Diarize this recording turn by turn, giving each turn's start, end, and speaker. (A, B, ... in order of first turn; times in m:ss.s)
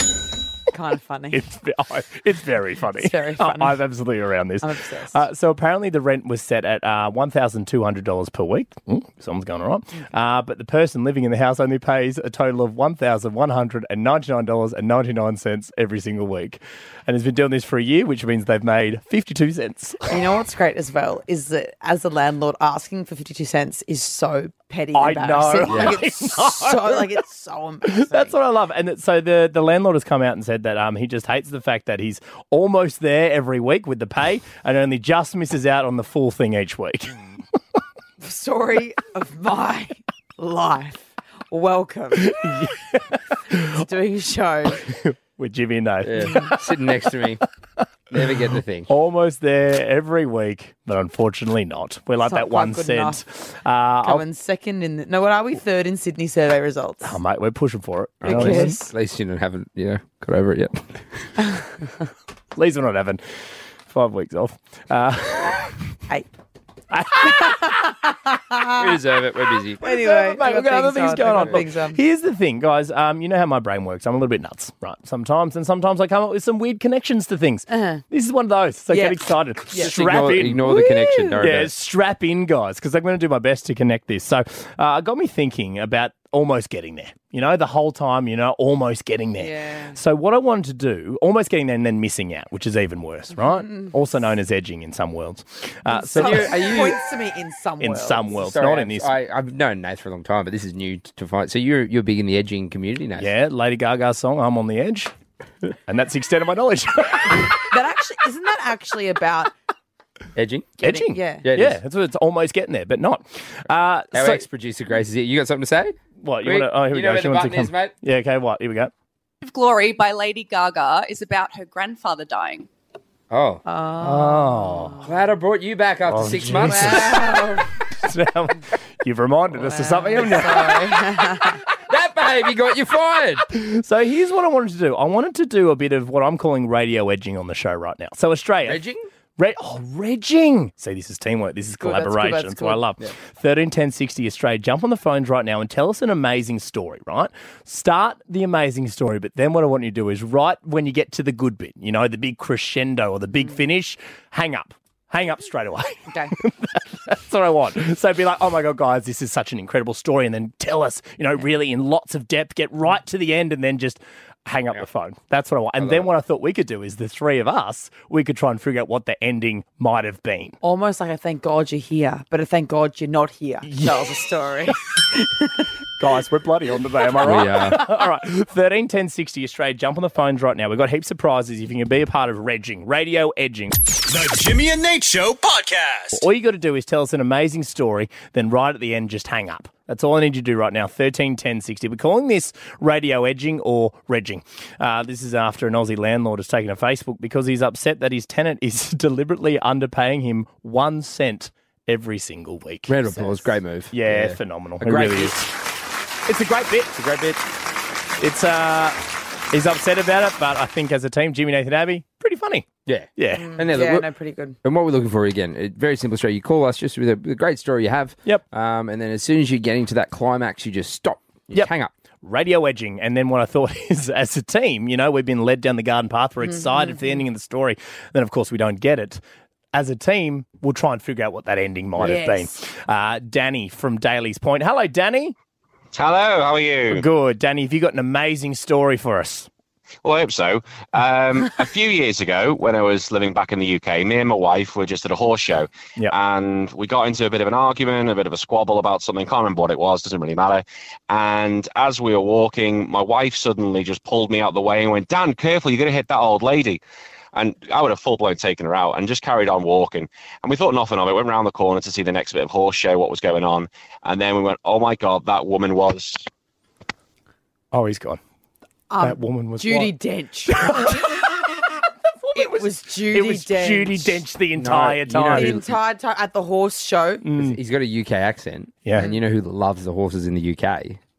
0:00.7-0:01.4 A
0:01.3-0:20.2 B
0:03.0-0:03.9 A
0:04.6-0:05.2 A
0:20.1-0:28.4 A
0:24.9-0:27.2 B
0:25.7-0:26.0 C
0:27.9-0:37.3 B
0:38.2-0:42.4 A
0:42.2-0:43.8 B
0:43.5-0:44.9 A
0:44.8-0:47.1 B
0:46.0-0:47.4 C
0:48.1-0:48.9 C
0:48.9-0:54.2 B
0:52.2-0:53.2 A
0:54.0-0:57.2 A
0:57.0-0:58.8 B
0:58.2-1:01.0 C
0:58.2-0:58.9 A
1:02.5-1:05.8 B
1:06.9-1:07.8 B
1:07.2-1:08.8 A
1:08.8-1:09.8 C
1:09.8-1:12.0 A
1:09.8-1:36.9 B
1:17.7-1:18.0 A
1:18.9-1:19.2 A
1:19.8-1:21.7 C
1:20.7-1:21.3 A
1:29.4-1:30.0 A
1:35.9-1:38.4 A
1:36.1-1:37.0 C
1:37.8-1:39.1 B
1:38.4-1:43.3 C
1:43.2-1:45.1 B
1:45.9-1:47.7 B
1:47.6-1:49.5 A
1:50.4-1:50.7 C
1:50.8-1:54.4 B
1:50.8-1:51.4 A
1:51.4-1:51.8 C
1:54.1-1:57.9 C
1:56.2-1:58.9 B
1:59.4-2:02.7 D
2:03.3-2:03.6 C
2:03.6-2:05.0 A
2:04.0-2:05.0 B
2:05.0-2:07.5 C
2:06.1-2:10.8 B
2:06.9-2:07.6 A
2:09.6-2:11.6 A
2:11.9-2:13.4 C
2:13.5-2:18.8 B
2:18.7-2:19.1 C
2:19.4-2:50.6 B
2:21.8-2:22.8 A
2:36.1-2:36.3 A
2:45.8-2:46.1 C
2:50.6-2:55.7 A
2:53.7-2:54.1 B
2:56.0-3:03.8 B
2:57.2-2:57.8 C
3:04.1-3:06.2 E
3:06.1-3:23.3 B
3:22.9-3:25.4 C
3:23.9-3:25.6 B
3:26.2-3:27.0 B
3:27.0-3:27.4 C
3:28.2-3:29.0 B
3:29.5-3:33.5 B
3:32.9-3:34.1 C
3:33.3-3:34.6 A
3:34.6-3:41.9 C
3:42.2-3:49.2 B
3:46.4-3:47.2 A
3:49.7-3:55.4 B
3:52.0-3:52.5 A
3:55.9-3:57.0 F
3:56.9-3:59.5 B
4:00.0-4:16.8 F
4:17.4-4:26.3 F
4:27.7-4:28.2 B
4:28.9-4:31.2 A
4:29.0-4:29.9 B
4:30.5-4:35.8 B
4:32.4-4:34.2 A
4:34.6-4:35.7 C
4:35.3-4:37.2 A
4:37.2-4:37.6 B
4:37.4-4:41.0 C
4:38.8-4:39.2 B